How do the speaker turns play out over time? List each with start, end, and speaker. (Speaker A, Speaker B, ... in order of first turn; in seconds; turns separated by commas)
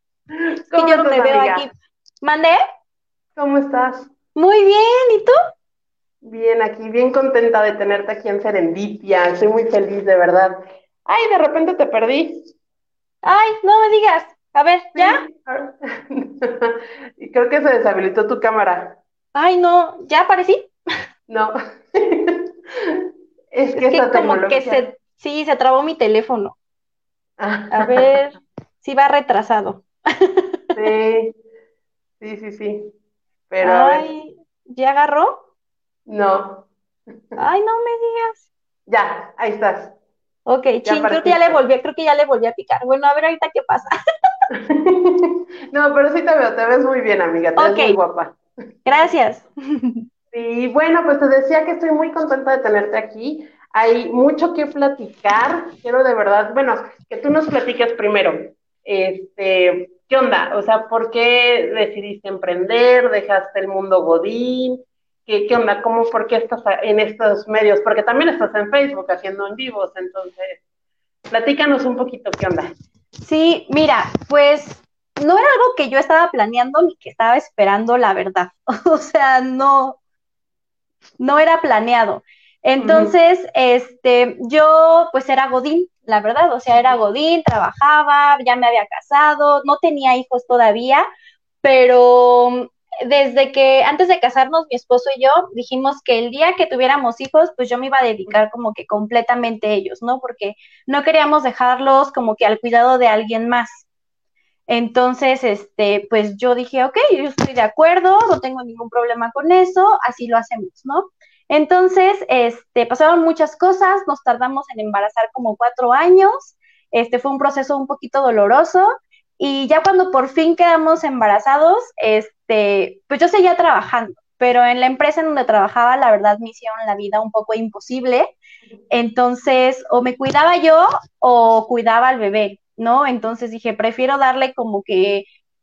Speaker A: 0.4-1.6, Speaker B: 0.7-2.6, Speaker A: 3.4-4.1, Speaker B: 4.3-5.3, Speaker A: 6.2-12.5, Speaker B: 13.2-15.2, Speaker A: 14.9-19.0, Speaker B: 19.3-20.7, Speaker A: 21.3-24.8, Speaker B: 23.7-26.6, Speaker A: 27.4-28.1, Speaker B: 27.7-30.6, Speaker A: 30.7-31.3, Speaker A: 32.2-32.9, Speaker A: 33.5-34.1, Speaker B: 33.6-35.4, Speaker A: 36.1-36.7, Speaker B: 37.4-38.5, Speaker A: 38.9-40.0, Speaker B: 40.5-43.9, Speaker A: 40.8-41.6, Speaker A: 44.5-48.4, Speaker B: 47.6-48.0, Speaker B: 48.9-50.0, Speaker A: 50.3-70.6, Speaker A: 71.3-72.7, Speaker B: 73.2-80.0, Speaker B: 81.2-91.0, Speaker A: 82.8-83.1, Speaker B: 91.6-103.8, Speaker B: 104.7-128.3, Speaker B: 128.9-135.2